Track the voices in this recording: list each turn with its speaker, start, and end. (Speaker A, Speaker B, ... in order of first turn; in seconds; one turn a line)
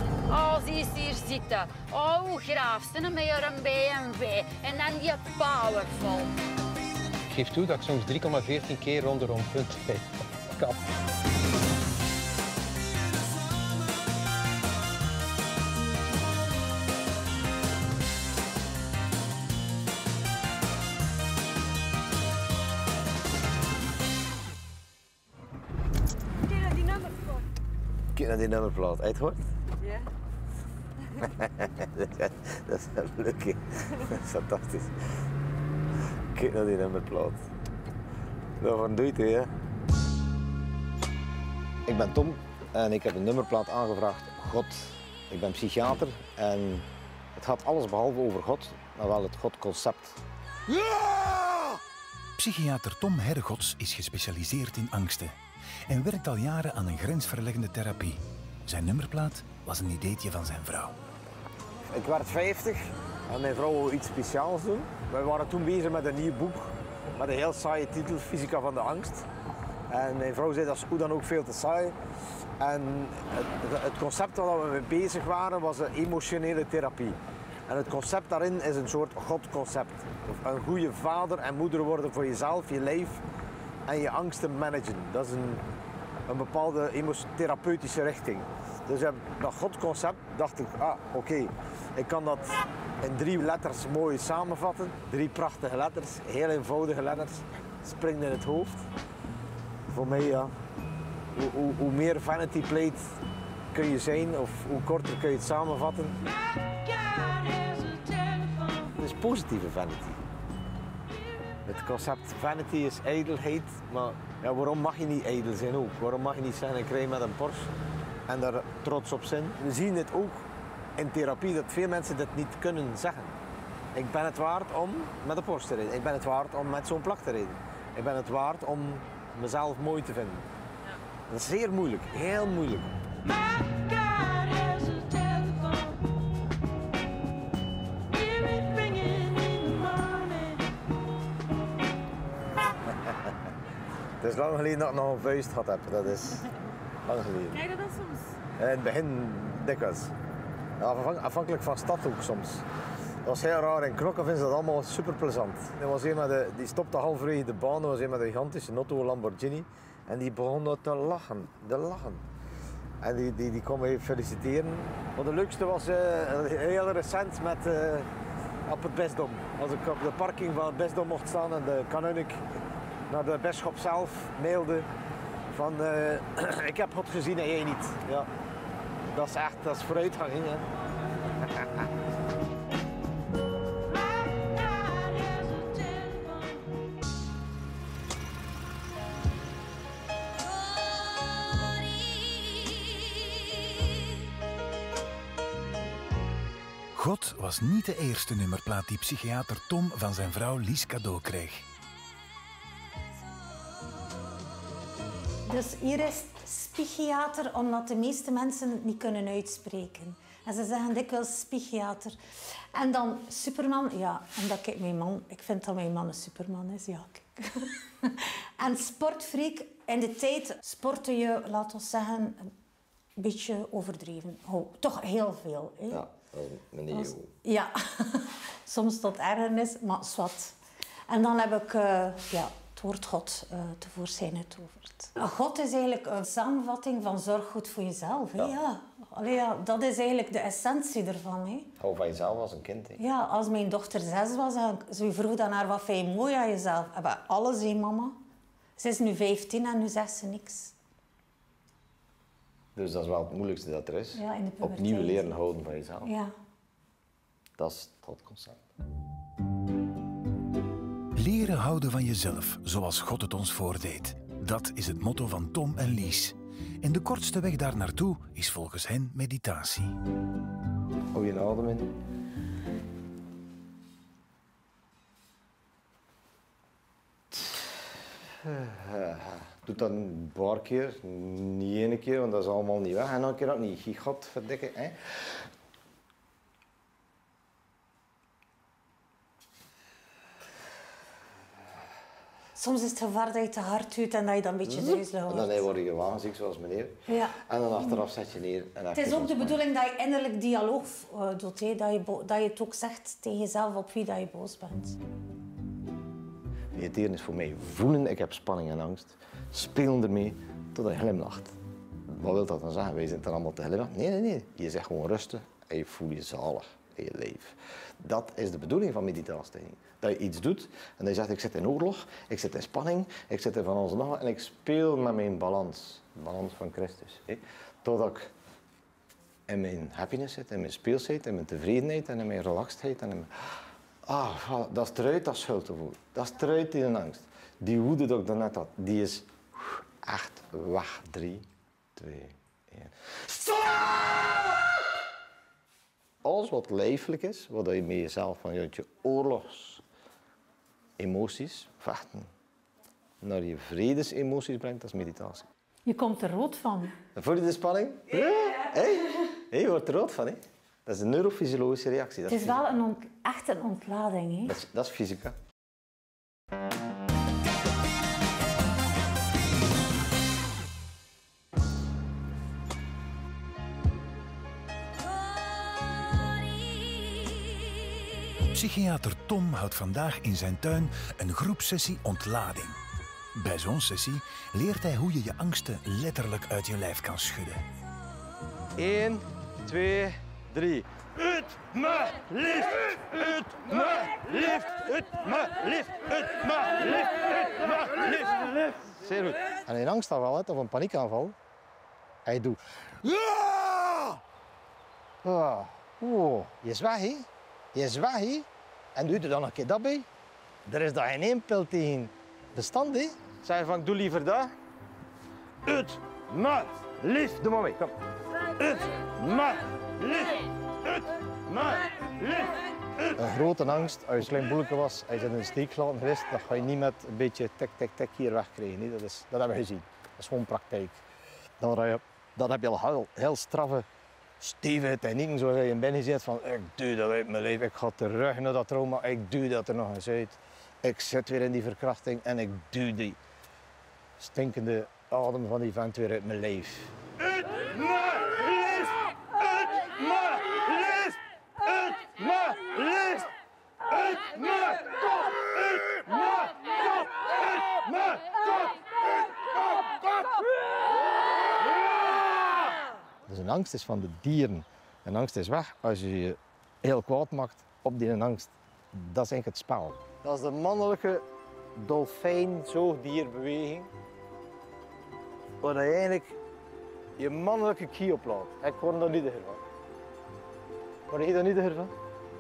Speaker A: 0.3-6.3
Speaker B: 7.4-8.2
Speaker B: 8.8-10.1
Speaker C: 26.5-27.4
Speaker D: 28.1-29.5
Speaker D: 31.2-34.9
Speaker D: 36.3-37.5
Speaker D: 38.6-39.5
Speaker D: 41.9-51.8
Speaker E: 52.4-55.4
Speaker E: 55.9-61.0
Speaker D: 61.9-69.3
Speaker D: 69.9-72.0
Speaker D: 72.6-83.2
Speaker D: 83.9-85.6
Speaker D: 86.3-98.9
Speaker D: 99.9-100.5
Speaker D: 101.3-103.2
Speaker D: 103.7-106.2
Speaker C: 106.8-108.6
Speaker D: 108.9-110.2
Speaker D: 111.7-117.7
Speaker D: 118.3-120.5
Speaker D: 121.0-123.4
Speaker D: 124.0-130.5
Speaker D: 131.3-133.0
Speaker C: 133.3-136.0
Speaker C: 138.2-140.6
Speaker D: 144.2-146.5
Speaker D: 147.1-147.7
Speaker C: 147.9-148.2
Speaker D: 148.6-150.1
Speaker D: 150.8-152.7
Speaker D: 153.2-162.2
Speaker D: 163.0-168.1
Speaker D: 168.7-172.4
Speaker D: 173.1-174.9
Speaker D: 175.5-178.3
Speaker D: 179.1-180.7
Speaker C: 185.0-185.5
Speaker E: 196.9-201.7
Speaker F: 205.5-212.2
Speaker F: 212.7-222.5
Speaker F: 223.2-226.0
Speaker D: 225.9-227.3
Speaker F: 226.9-230.6
Speaker F: 231.1-241.7
Speaker D: 241.8-243.0
Speaker F: 243.0-248.2
Speaker F: 248.8-250.8
Speaker D: 252.8-256.1
Speaker F: 254.2-255.4
Speaker F: 256.0-256.3
Speaker D: 257.6-258.6
Speaker E: 261.2-270.0
Speaker D: 271.1-271.9
Speaker D: 278.4-285.0
Speaker F: 292.6-295.7
Speaker D: 294.7-299.6
Speaker F: 297.1-297.4
Speaker F: 298.9-305.0
Speaker D: 306.7-311.6
Speaker D: 312.1-328.3
Speaker D: 329.5-333.3
Speaker D: 334.1-344.5
Speaker D: 346.2-349.8
Speaker D: 351.0-352.3
Speaker D: 353.2-355.4
Speaker F: 355.9-356.9
Speaker D: 357.1-362.6
Speaker F: 362.3-364.6
Speaker D: 364.5-365.4
Speaker E: 378.5-382.8
Speaker E: 383.4-387.6
Speaker D: 388.8-401.4
Speaker D: 402.3-404.2
Speaker D: 405.2-410.1
Speaker D: 410.7-414.5
Speaker D: 415.6-417.9
Speaker D: 418.6-422.6
Speaker D: 423.1-431.0
Speaker D: 431.6-433.9
Speaker D: 434.4-443.2
Speaker D: 444.2-446.9
Speaker D: 447.6-448.9
Speaker D: 449.7-451.1
Speaker D: 452.0-453.3
Speaker D: 454.4-455.0
Speaker D: 455.8-456.2
Speaker D: 458.0-458.4
Speaker D: 463.3-471.2
Speaker D: 471.8-473.9
Speaker D: 475.6-476.4
Speaker D: 477.2-479.6
Speaker D: 481.1-481.9